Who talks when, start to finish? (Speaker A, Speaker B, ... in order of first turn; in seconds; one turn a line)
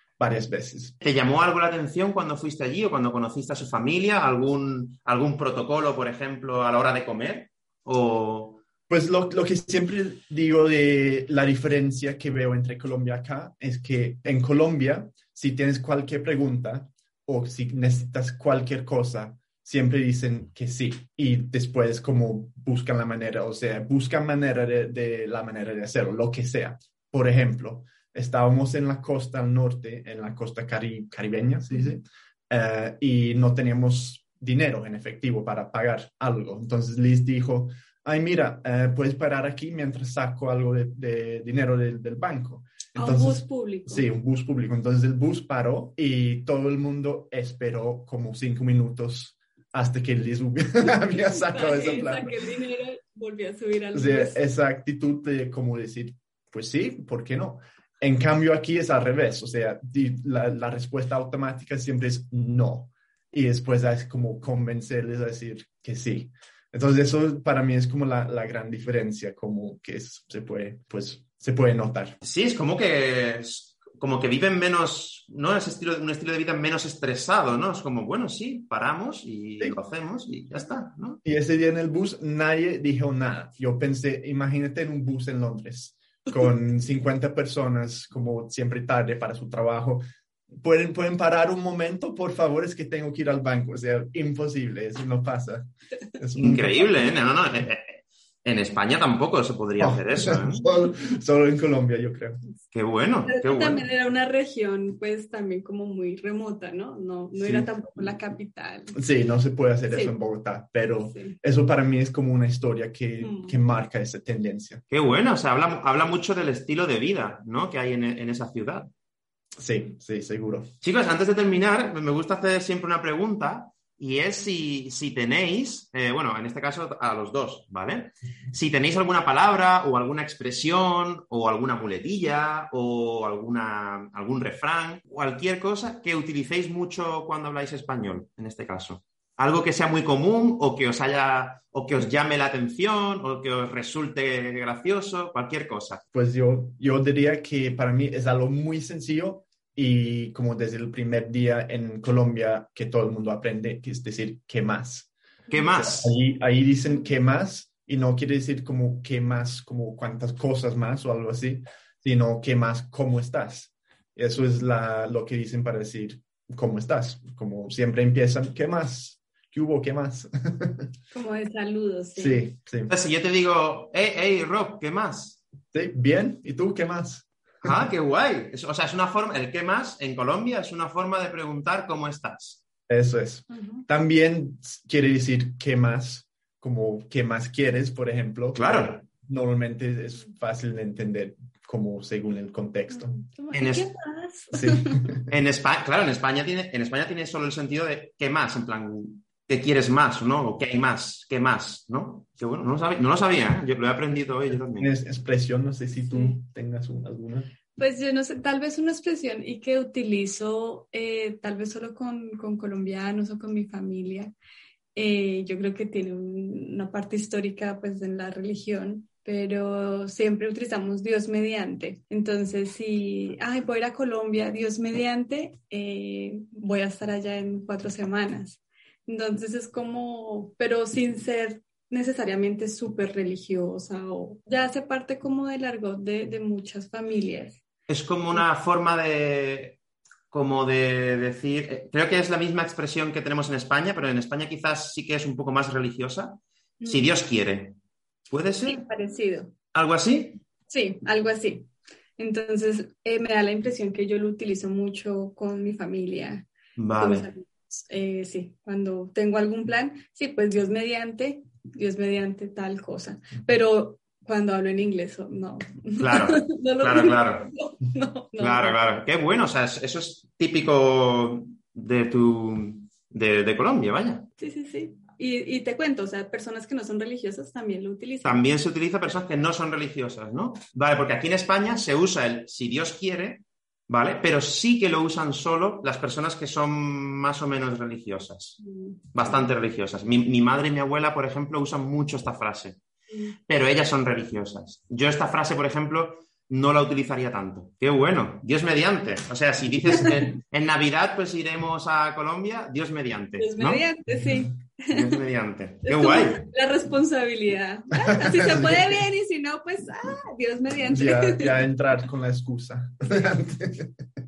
Speaker A: 0.2-0.9
Speaker B: 1.0-8.6
Speaker A: 8.9-52.4
Speaker C: 43.0-44.1
Speaker C: 51.3-54.4
Speaker A: 53.9-72.2
Speaker B: 72.2-81.2
Speaker A: 81.2-95.7
Speaker A: 96.2-96.9
Speaker B: 96.4-100.6
Speaker A: 99.8-102.4
Speaker B: 102.7-103.8
Speaker C: 103.3-109.0
Speaker A: 107.4-107.7
Speaker A: 109.0-114.8
Speaker C: 109.9-110.2
Speaker C: 111.1-111.4
Speaker C: 113.2-113.6
Speaker B: 114.9-118.9
Speaker A: 119.6-120.7
Speaker B: 120.8-146.0
Speaker A: 146.1-155.1
Speaker B: 155.5-156.1
Speaker A: 155.8-170.9
Speaker C: 171.1-172.5
Speaker A: 172.2-172.9
Speaker B: 172.9-175.4
Speaker A: 175.7-177.7
Speaker B: 177.6-182.6
Speaker A: 182.9-193.1
Speaker C: 183.5-183.8
Speaker B: 188.6-189.0
Speaker C: 192.9-195.0
Speaker B: 193.5-193.9
Speaker A: 194.5-195.2
Speaker B: 195.3-204.9
Speaker A: 204.8-207.5
Speaker C: 206.1-206.4
Speaker C: 207.8-214.3
Speaker C: 214.9-237.6
Speaker B: 237.9-239.8
Speaker B: 240.3-247.8
Speaker C: 246.8-247.1
Speaker B: 248.3-248.8
Speaker C: 248.7-249.5
Speaker B: 249.7-250.4
Speaker C: 250.7-268.8
Speaker B: 256.8-257.3
Speaker B: 266.0-267.5
Speaker B: 268.4-274.3
Speaker C: 274.4-278.5
Speaker B: 278.2-288.6
Speaker C: 288.6-289.2
Speaker B: 289.1-292.8
Speaker C: 293.1-293.4
Speaker B: 293.5-303.9
Speaker C: 303.4-305.1
Speaker B: 304.9-306.4
Speaker C: 305.8-311.7
Speaker A: 308.0-309.0
Speaker A: 310.9-313.9